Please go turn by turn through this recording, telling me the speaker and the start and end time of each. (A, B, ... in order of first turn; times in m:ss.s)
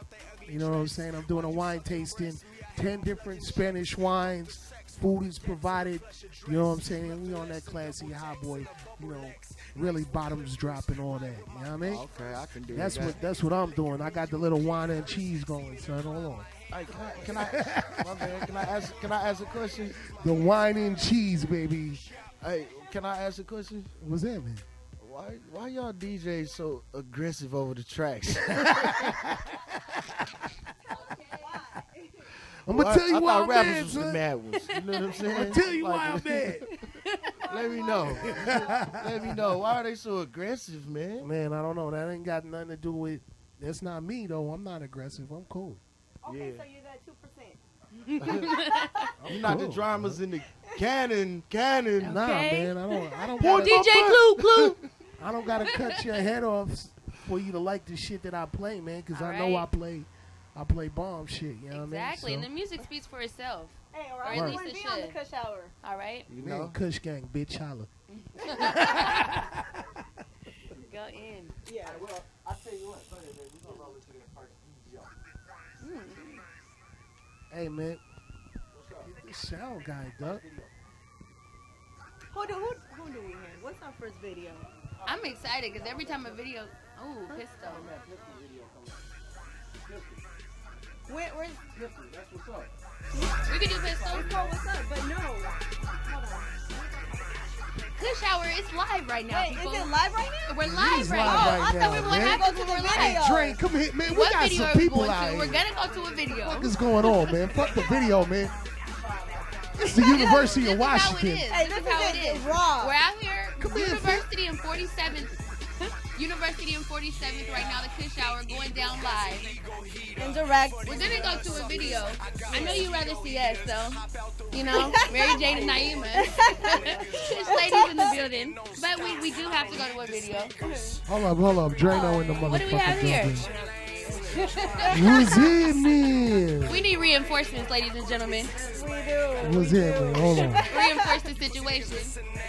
0:00.4-0:12.0 A
0:11.8-0:13.2 B
0:12.7-0:16.5 A
0:16.7-0:19.9 B
0:17.4-0:18.5 A
0:20.2-0:22.0 A
0:22.4-0:23.9 B
0:24.0-0:24.6 A
0:25.0-0:29.1 B
0:28.6-0:29.1 A
0:31.1-0:32.3 C
0:32.6-0:36.6 B
0:32.7-0:34.2 A
0:35.2-0:36.7 A
0:37.0-0:37.3 D
0:37.5-0:38.7 C
0:37.5-0:41.3 B
0:38.3-0:39.3 A
0:41.2-0:45.8 A
0:46.2-0:47.6 C
0:46.3-0:46.6 B
0:48.3-0:49.1 D
0:48.3-0:49.0 C
0:49.2-0:50.2 A
0:49.2-0:52.2 B
0:52.0-0:54.1 A
0:52.0-0:52.8 D
0:53.4-0:54.3 B
0:53.4-0:54.8 D
0:55.2-1:02.5 A
0:59.1-0:59.7 D
1:01.7-1:05.2 D
1:03.9-1:05.7 C
1:04.3-1:04.6 A
1:05.8-1:06.3 D
1:06.3-1:06.8 B
1:06.4-1:07.9 A
1:08.1-1:09.3 D
1:08.5-1:09.5 A
1:10.7-1:11.6 D
1:11.6-1:12.0 C
1:11.8-1:15.1 B
1:15.8-1:16.4 D
1:17.5-1:18.0 A
1:18.7-1:19.1 B
1:19.0-1:20.4 A
1:20.2-1:20.6 B
1:22.3-1:24.7 C
1:25.0-1:27.9 D
1:27.6-1:29.0 B
1:29.9-1:30.2 B
1:31.1-1:31.6 C
1:31.7-1:32.7 B
1:33.5-1:34.4 D
1:34.0-1:37.6 C
1:38.0-1:39.9 D
1:39.3-1:43.6 C
1:40.4-1:43.2 D
1:40.6-1:45.6 A
1:44.1-1:46.7 D
1:46.4-1:48.5 A
1:49.2-1:49.7 B
1:49.8-1:51.4 A
1:49.9-1:55.4 D
1:51.5-1:52.9 C
1:53.6-1:54.2 A
1:56.1-1:59.5 D
2:00.2-2:00.9 C
2:00.8-2:10.5 D
2:04.7-2:08.1 C
2:10.7-2:10.9 C
2:11.0-2:13.5 A
2:11.9-2:13.4 D
2:14.4-2:15.5 D
2:14.9-2:16.8 A
2:16.6-2:18.5 D
2:18.7-2:21.2 C
2:19.4-2:20.6 A
2:20.7-2:22.1 D